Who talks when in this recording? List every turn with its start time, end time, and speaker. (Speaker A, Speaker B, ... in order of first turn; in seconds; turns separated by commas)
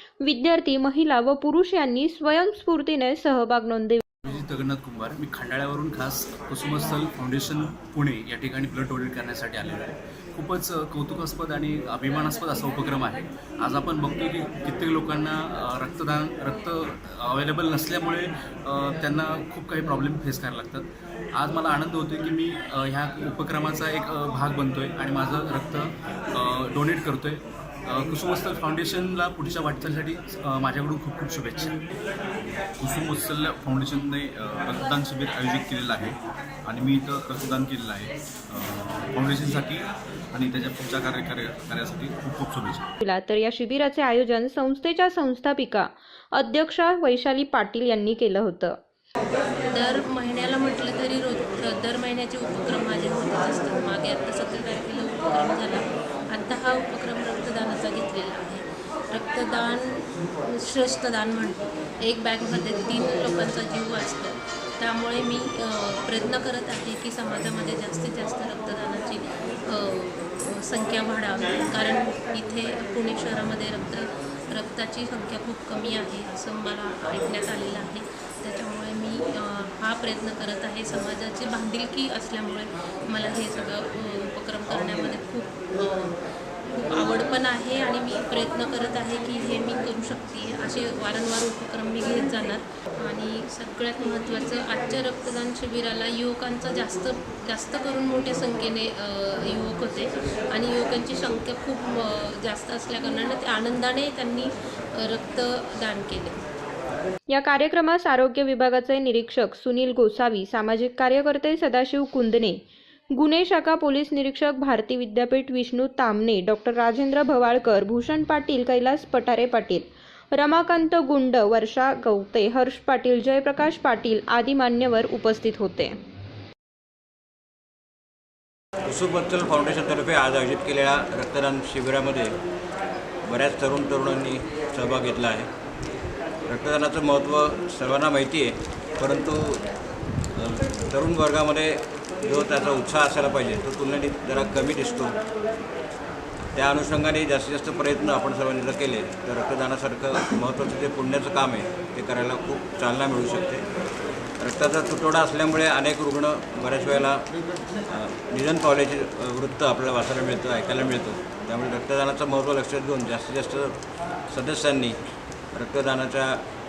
Speaker A: 0.2-4.0, Speaker B: 4.2-31.8, Speaker C: 32.8-42.9, Speaker A: 43.0-48.8, Speaker D: 49.7-106.4, Speaker A: 107.3-112.6, Speaker A: 113.2-126.0, Speaker E: 128.8-132.3, Speaker E: 133.3-135.5, Speaker E: 136.5-139.6, Speaker E: 140.4-145.2, Speaker E: 146.5-153.6, Speaker E: 154.4-157.2, Speaker E: 157.9-163.7, Speaker E: 164.3-165.0, Speaker E: 165.5-166.4